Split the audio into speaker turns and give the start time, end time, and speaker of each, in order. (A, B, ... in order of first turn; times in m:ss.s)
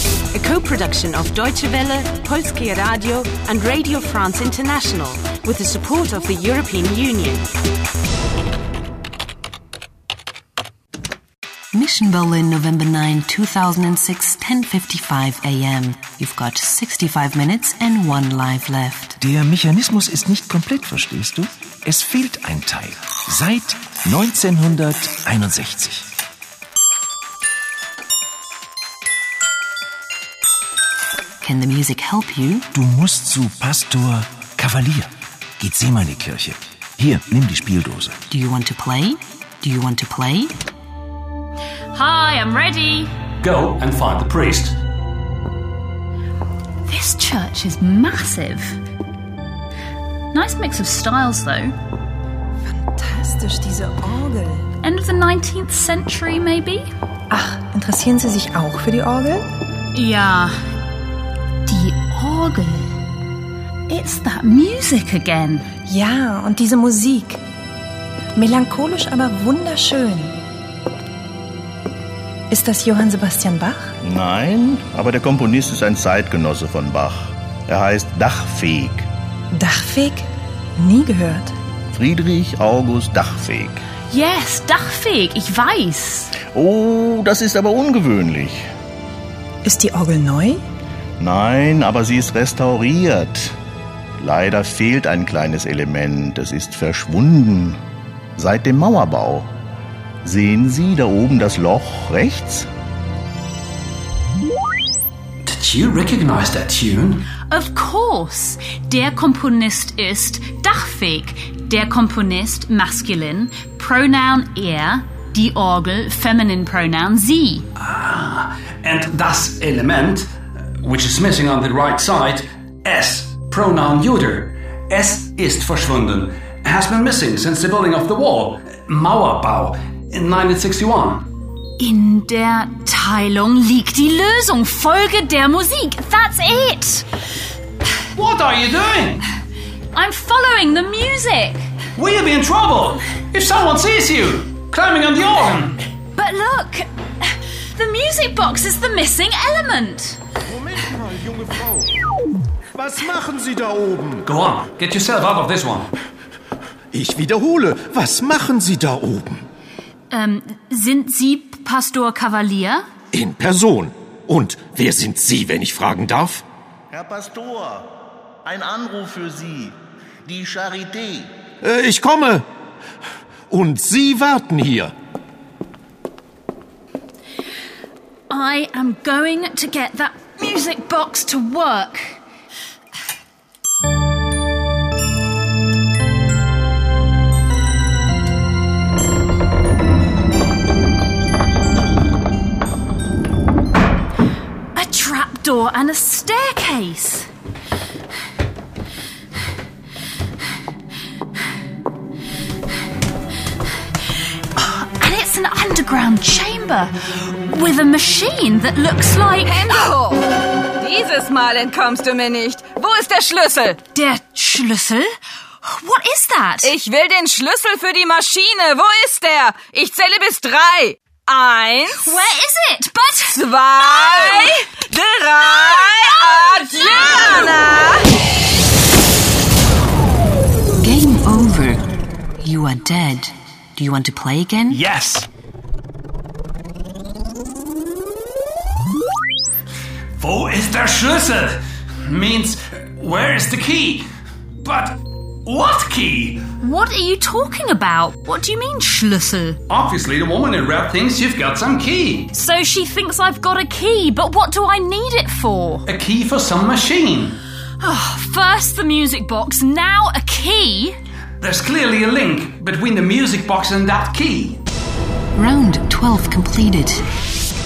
0:00.3-0:07.4 A
0:11.7-0:19.2 B
0:19.2-0:26.0 C
0:31.4-0:32.6 B
0:32.8-0:35.1 C
0:35.6-0:38.1 C
0:38.3-0:40.5 B
0:41.9-0:43.1 D
0:43.4-0:44.8 E
0:46.9-0:48.8 D
0:50.3-0:51.7 D
0:52.6-0:54.6 F
0:54.8-0:56.9 D
0:57.3-0:59.4 F
0:59.9-1:00.5 D
1:01.6-1:02.9 D
1:03.9-1:05.6 D
1:05.9-1:07.4 F
1:08.3-1:10.4 F
1:12.5-1:13.9 F
1:14.0-1:19.0 G
1:19.5-1:20.2 F
1:20.8-1:21.5 F
1:21.9-1:23.8 G
1:24.1-1:26.3 D
1:26.5-1:28.6 G
1:29.6-1:30.6 F
1:31.2-1:33.5 G
1:34.2-1:37.8 G
1:38.4-1:39.5 G
1:40.2-1:42.6 G
1:45.4-1:47.2 E
1:47.5-1:57.7 D
1:57.8-2:00.3 E
2:00.8-2:11.3 E
2:11.8-2:17.0 D
2:18.1-2:19.2 E
2:19.9-2:21.6 D
2:22.0-2:25.8 E
2:26.1-2:26.8 D
2:27.7-2:30.2 D
2:30.5-2:31.9 H
2:32.8-2:34.2 H
2:34.2-2:35.9 E
2:36.9-2:39.4 H
2:40.1-2:42.8 D
2:43.1-2:46.4 H
2:46.9-2:47.9 G
2:48.4-2:51.3 G
2:51.6-2:52.4 H
2:53.5-2:54.9 H
2:58.3-3:02.2 D
3:14.7-3:17.3 D
3:24.6-3:29.9 D
3:29.4-3:33.8 I
3:33.9-3:36.7 D
3:36.6-3:42.1 I
3:42.0-3:43.4 D
3:43.3-3:48.1 I
3:50.8-3:51.8 B
3:52.4-3:54.8 B
3:54.7-3:55.3 E
4:00.2-4:04.0 E
4:04.6-4:06.4 E
4:06.6-4:09.6 D
4:09.7-4:12.3 E
4:12.3-4:15.8 D
4:15.9-4:17.4 E
4:17.8-4:21.0 D
4:21.4-4:24.6 E
4:25.4-4:27.0 B